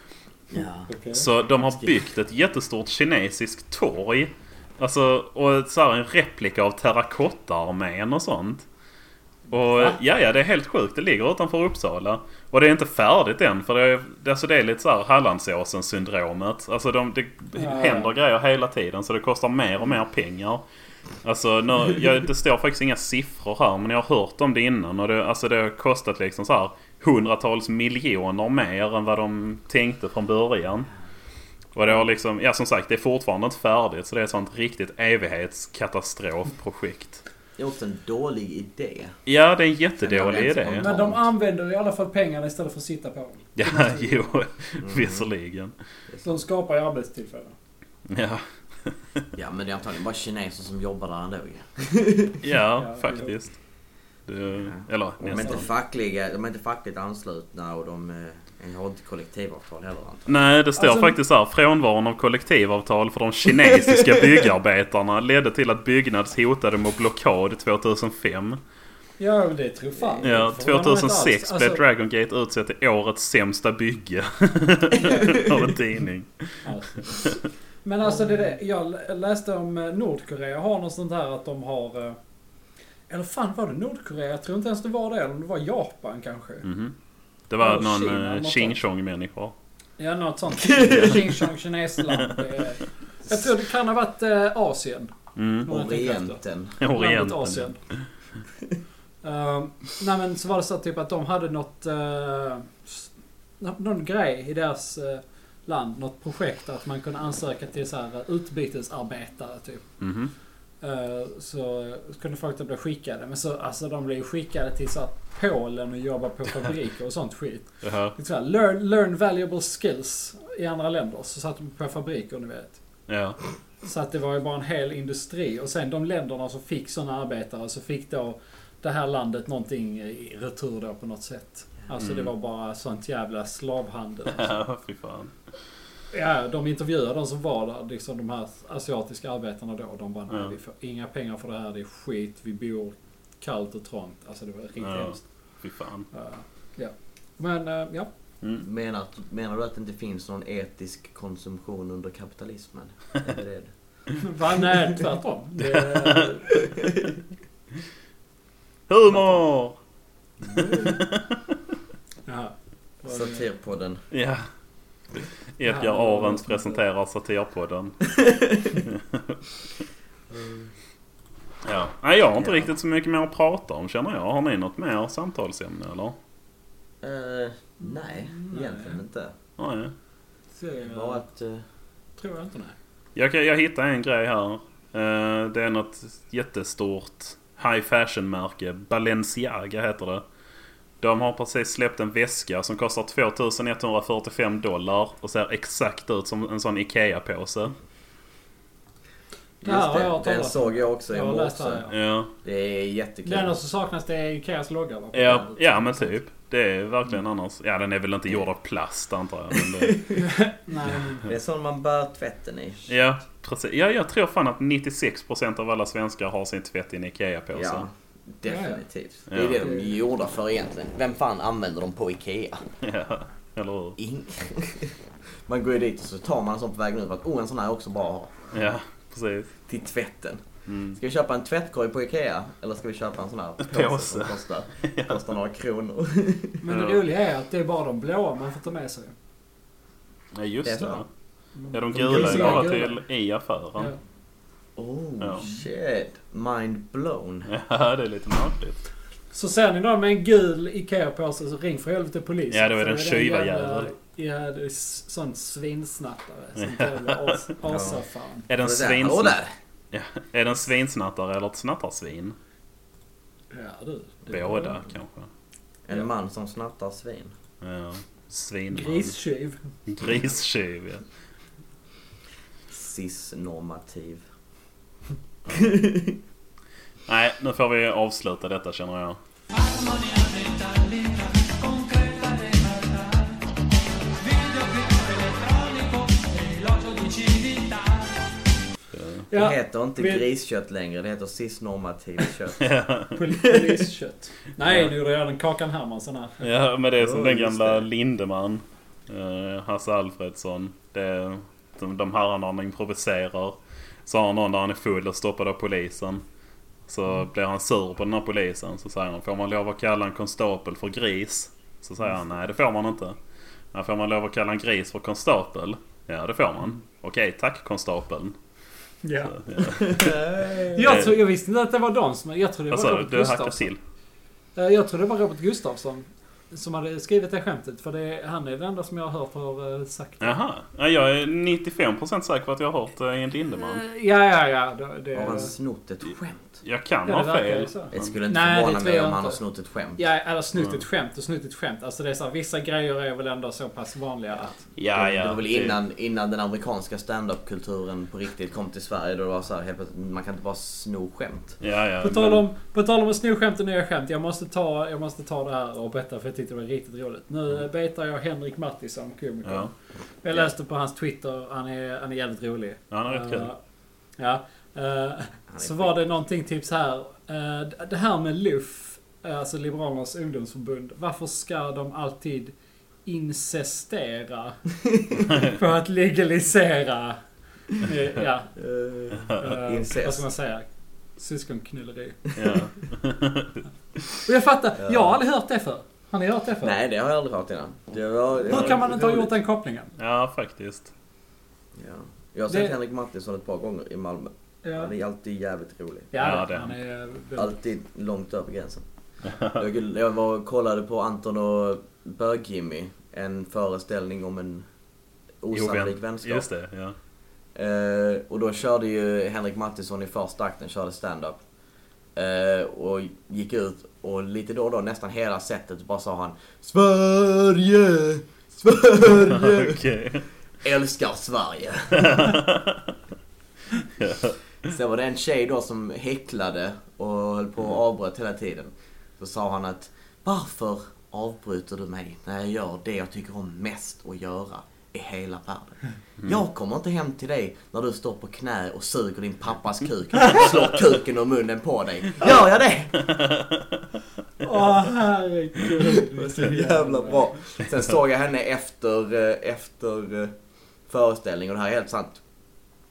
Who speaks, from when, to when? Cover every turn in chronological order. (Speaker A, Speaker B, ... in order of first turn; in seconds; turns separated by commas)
Speaker A: 0.5-0.9, Speaker B: 0.9-1.2, Speaker C: 1.1-8.6, Speaker C: 9.5-20.6, Speaker B: 17.5-18.1, Speaker C: 21.2-30.9, Speaker C: 31.7-37.2, Speaker A: 37.6-39.2, Speaker C: 39.3-40.9, Speaker A: 40.0-41.2, Speaker B: 40.7-44.3, Speaker C: 43.6-45.7, Speaker A: 44.8-45.3, Speaker A: 46.1-46.4, Speaker B: 46.2-47.5, Speaker C: 48.1-49.2, Speaker A: 49.3-52.4, Speaker C: 52.4-53.5, Speaker B: 52.8-53.3, Speaker C: 54.3-55.7, Speaker A: 54.6-60.4, Speaker C: 60.3-68.6, Speaker B: 60.8-61.1, Speaker B: 69.2-71.8, Speaker A: 70.0-70.3, Speaker C: 70.2-77.4, Speaker B: 74.9-75.4, Speaker B: 76.6-77.3, Speaker B: 77.8-82.2, Speaker B: 83.1-86.7, Speaker C: 86.6-86.9, Speaker C: 87.5-89.5, Speaker B: 87.6-88.8, Speaker B: 90.0-95.1, Speaker C: 90.8-91.3, Speaker C: 92.1-92.4, Speaker C: 95.3-95.7, Speaker B: 95.6-96.4, Speaker A: 95.7-96.8, Speaker C: 96.8-98.1, Speaker B: 96.9-97.8, Speaker B: 99.2-110.0, Speaker C: 110.0-110.3, Speaker B: 110.8-122.8, Speaker C: 117.8-118.1, Speaker C: 123.1-123.4, Speaker B: 123.8-134.6, Speaker C: 132.0-132.3, Speaker C: 134.3-135.3, Speaker B: 136.1-145.2, Speaker C: 144.8-146.1, Speaker B: 146.1-148.1, Speaker A: 148.6-153.7, Speaker B: 154.2-156.5, Speaker C: 156.0-156.3, Speaker C: 158.9-159.8, Speaker B: 160.5-161.0, Speaker C: 160.6-161.5, Speaker B: 162.3-163.4, Speaker A: 163.1-164.0, Speaker C: 164.1-164.4, Speaker C: 165.6-169.4, Speaker B: 165.6-166.8, Speaker C: 171.6-176.2, Speaker A: 172.4-172.7, Speaker A: 177.0-179.3, Speaker B: 177.8-179.0, Speaker C: 179.6-179.9, Speaker B: 180.6-181.2, Speaker A: 180.8-181.6, Speaker B: 182.2-182.7, Speaker C: 183.1-190.2, Speaker C: 191.0-197.7, Speaker A: 199.6-201.8, Speaker B: 199.6-201.9, Speaker C: 201.9-202.3, Speaker A: 202.4-203.5, Speaker B: 203.2-206.0, Speaker C: 205.1-210.1, Speaker A: 209.7-210.2, Speaker B: 210.2-211.2, Speaker A: 211.2-212.9, Speaker C: 212.9-217.9, Speaker A: 217.5-222.6, Speaker B: 218.4-218.8, Speaker C: 219.3-219.7, Speaker B: 219.6-219.9, Speaker C: 222.8-224.0, Speaker A: 224.0-224.9, Speaker A: 225.4-228.3, Speaker C: 228.5-229.5, Speaker A: 229.7-236.6, Speaker C: 230.7-231.0, Speaker C: 233.6-235.2, Speaker B: 236.6-239.1, Speaker C: 236.7-237.0, Speaker C: 240.3-241.1, Speaker A: 240.6-241.0, Speaker B: 241.6-243.0, Speaker C: 241.7-243.9, Speaker A: 241.9-242.7, Speaker A: 244.8-247.5, Speaker C: 245.2-245.5, Speaker C: 247.5-248.8, Speaker B: 249.3-258.5, Speaker C: 252.5-253.9, Speaker C: 256.6-257.4, Speaker A: 257.6-258.0, Speaker C: 258.5-259.4, Speaker A: 258.6-259.5, Speaker C: 259.9-262.4, Speaker B: 263.5-264.8, Speaker C: 264.3-265.3, Speaker A: 265.9-267.3, Speaker C: 267.6-269.1, Speaker B: 268.7-269.6, Speaker C: 269.9-271.0, Speaker A: 272.7-274.2, Speaker C: 275.5-275.8, Speaker A: 275.5-276.2, Speaker C: 277.1-279.2, Speaker D: 279.5-288.7, Speaker C: 288.9-289.2, Speaker B: 289.3-290.2, Speaker A: 289.3-292.6, Speaker C: 292.6-293.2, Speaker B: 293.1-296.4, Speaker A: 293.4-293.8, Speaker C: 294.6-294.9, Speaker C: 296.4-306.2, Speaker A: 297.0-297.9, Speaker C: 306.9-313.2, Speaker C: 313.7-318.3, Speaker B: 319.0-319.4, Speaker C: 319.3-320.1, Speaker A: 319.7-320.9, Speaker B: 320.7-323.7, Speaker C: 322.7-323.8, Speaker B: 324.6-330.4, Speaker C: 330.2-333.8, Speaker B: 333.6-335.5, Speaker A: 335.1-336.6, Speaker C: 336.6-338.1, Speaker B: 337.1-339.4, Speaker A: 337.9-340.0, Speaker B: 340.0-344.6, Speaker C: 344.8-345.8, Speaker A: 344.9-351.6, Speaker C: 351.6-352.4, Speaker B: 352.0-359.7, Speaker C: 359.4-359.7, Speaker B: 360.2-363.6, Speaker C: 362.9-363.5, Speaker B: 364.2-372.5, Speaker A: 365.5-365.9, Speaker B: 373.0-374.6, Speaker B: 375.3-377.2, Speaker B: 377.7-378.5, Speaker A: 378.6-380.2, Speaker B: 379.4-380.7, Speaker B: 381.2-382.2, Speaker C: 382.4-383.6, Speaker B: 384.2-386.8, Speaker A: 384.8-385.2, Speaker A: 386.6-389.3, Speaker B: 388.5-389.9, Speaker C: 390.0-390.9, Speaker A: 391.7-396.1, Speaker B: 394.6-394.9, Speaker B: 396.1-397.5, Speaker C: 396.2-396.8, Speaker A: 397.4-398.8, Speaker A: 399.3-404.6, Speaker A: 405.4-406.4, Speaker C: 405.5-406.9, Speaker A: 407.5-411.4, Speaker A: 412.1-419.8, Speaker C: 419.2-420.3, Speaker A: 420.6-422.3, Speaker C: 421.9-422.9, Speaker C: 424.0-424.4, Speaker A: 424.6-443.0, Speaker C: 443.1-443.4, Speaker B: 444.4-447.3, Speaker A: 445.9-450.3, Speaker A: 450.9-452.2